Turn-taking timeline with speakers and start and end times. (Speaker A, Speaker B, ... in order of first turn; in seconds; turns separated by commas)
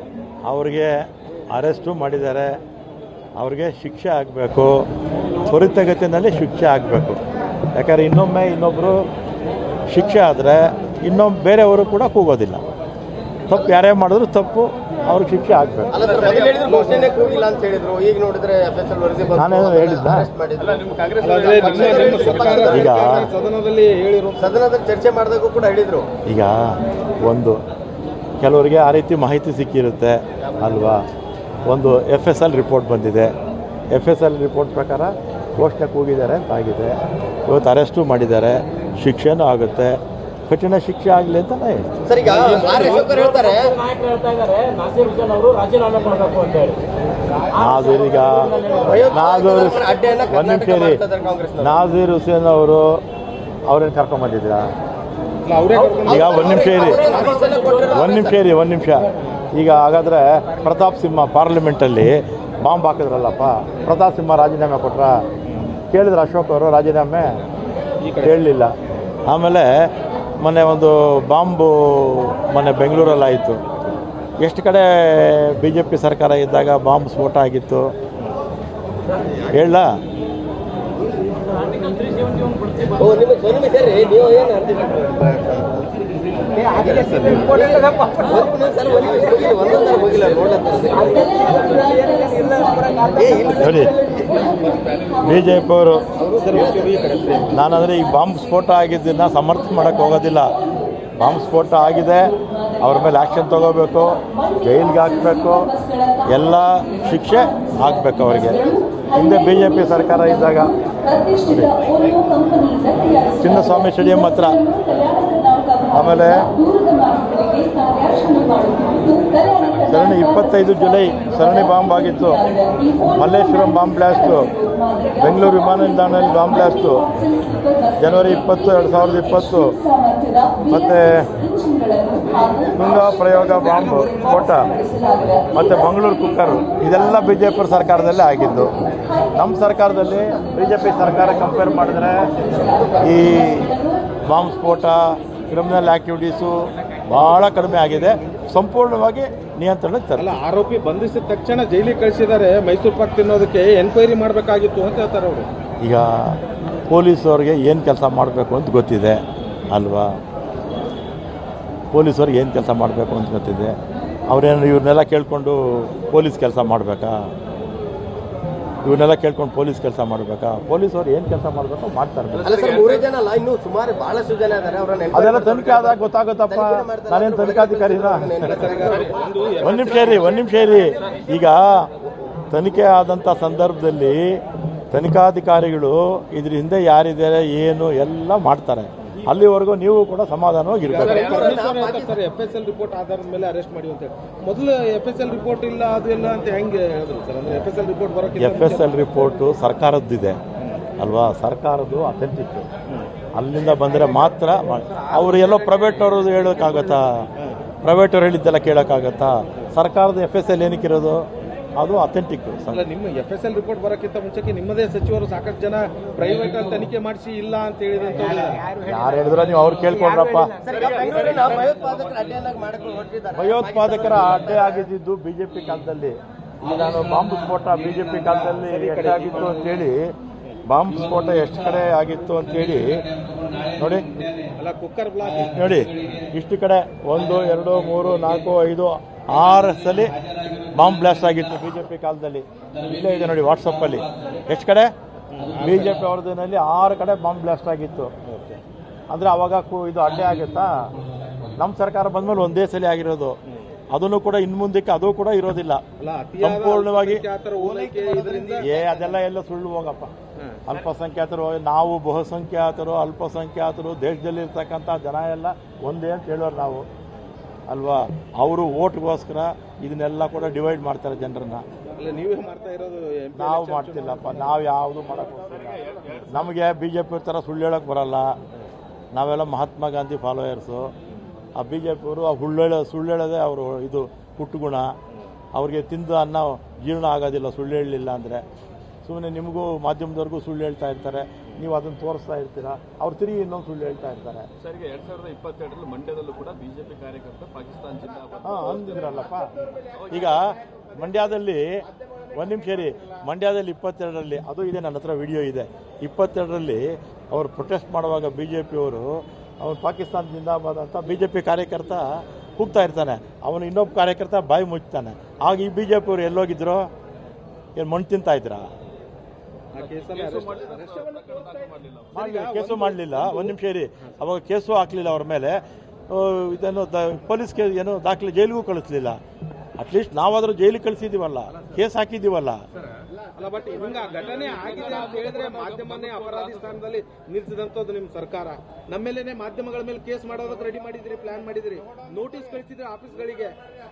Speaker A: 0.5-2.6, Speaker A: 3.4-4.8, Speaker A: 5.5-7.2, Speaker A: 7.7-9.0, Speaker A: 9.9-12.6, Speaker A: 13.5-15.9, Speaker B: 15.9-23.3, Speaker C: 16.1-17.2, Speaker A: 19.4-20.3, Speaker D: 20.8-22.6, Speaker C: 21.2-24.5, Speaker A: 22.6-23.3, Speaker B: 24.4-26.1, Speaker A: 26.3-27.6, Speaker A: 28.4-31.0, Speaker A: 31.6-33.3, Speaker A: 33.9-37.0, Speaker A: 37.5-42.0, Speaker B: 42.0-43.8, Speaker E: 43.0-46.8, Speaker A: 47.5-51.0, Speaker E: 47.7-48.8, Speaker B: 48.7-51.8, Speaker A: 51.6-52.8, Speaker A: 53.7-54.7, Speaker C: 55.4-57.8, Speaker A: 56.0-57.1, Speaker B: 56.0-58.4, Speaker E: 57.2-57.8, Speaker A: 57.8-65.2, Speaker C: 65.5-65.8, Speaker A: 65.9-67.4, Speaker C: 68.0-68.4, Speaker A: 68.2-68.7, Speaker A: 69.3-69.7, Speaker A: 70.4-73.7, Speaker A: 74.4-77.9, Speaker A: 79.5-79.9, Speaker E: 81.6-82.8, Speaker B: 82.8-85.8, Speaker B: 86.5-91.6, Speaker E: 86.8-88.4, Speaker C: 87.1-87.6, Speaker E: 91.0-93.6, Speaker B: 93.1-94.6, Speaker A: 93.5-94.0, Speaker A: 95.2-96.1, Speaker C: 96.2-97.5, Speaker A: 97.5-100.5, Speaker A: 101.2-105.7, Speaker A: 106.3-110.8, Speaker A: 111.3-111.9, Speaker A: 113.3-114.7, Speaker A: 115.9-116.6, Speaker E: 117.2-119.0, Speaker A: 119.7-122.5, Speaker A: 123.0-124.5, Speaker A: 125.2-127.1, Speaker A: 128.0-129.8, Speaker A: 130.6-131.4, Speaker A: 132.8-134.8, Speaker A: 135.5-138.8, Speaker A: 139.3-142.5, Speaker A: 143.0-143.8, Speaker A: 144.3-146.6, Speaker A: 147.1-150.3, Speaker C: 150.2-155.5, Speaker A: 155.8-160.2, Speaker A: 161.9-163.7, Speaker A: 164.3-167.3, Speaker A: 168.8-172.5, Speaker D: 172.3-173.0, Speaker B: 172.4-179.2, Speaker A: 175.1-178.6, Speaker C: 178.5-180.4, Speaker A: 179.6-181.9, Speaker A: 182.5-184.2, Speaker A: 184.9-191.5, Speaker C: 190.8-198.9, Speaker B: 191.0-192.1, Speaker A: 198.4-200.4, Speaker A: 201.0-202.7, Speaker A: 203.3-207.1, Speaker C: 204.9-206.4, Speaker A: 207.8-211.2, Speaker A: 211.8-212.8, Speaker C: 212.7-218.7, Speaker E: 218.4-220.7, Speaker A: 218.8-220.6, Speaker B: 220.6-224.9, Speaker D: 220.7-221.8, Speaker C: 220.9-221.7, Speaker A: 223.3-230.1, Speaker C: 228.6-229.6, Speaker A: 230.7-233.0, Speaker A: 233.8-234.1, Speaker C: 234.4-235.6, Speaker A: 235.4-240.1, Speaker A: 240.7-244.9, Speaker C: 245.3-245.8, Speaker A: 245.5-248.1, Speaker C: 248.3-248.6, Speaker A: 249.1-250.7, Speaker A: 251.6-253.4, Speaker A: 253.9-255.8, Speaker C: 256.0-258.7, Speaker A: 256.4-257.2, Speaker E: 257.7-258.5, Speaker A: 258.6-260.1, Speaker A: 260.6-266.9, Speaker A: 267.7-271.6, Speaker C: 272.0-274.6, Speaker A: 273.4-278.4, Speaker D: 275.5-276.5, Speaker A: 279.1-280.9, Speaker A: 281.6-284.9, Speaker A: 285.5-288.4, Speaker A: 289.0-294.5, Speaker D: 294.6-300.3, Speaker A: 298.4-299.5, Speaker A: 300.1-300.4, Speaker A: 300.9-301.6, Speaker A: 302.3-312.0, Speaker A: 312.6-316.9, Speaker A: 317.8-318.7, Speaker C: 319.7-321.2, Speaker D: 319.7-322.2, Speaker C: 322.1-323.5, Speaker A: 322.1-329.2, Speaker A: 329.8-332.6, Speaker C: 333.3-343.6, Speaker D: 334.3-336.6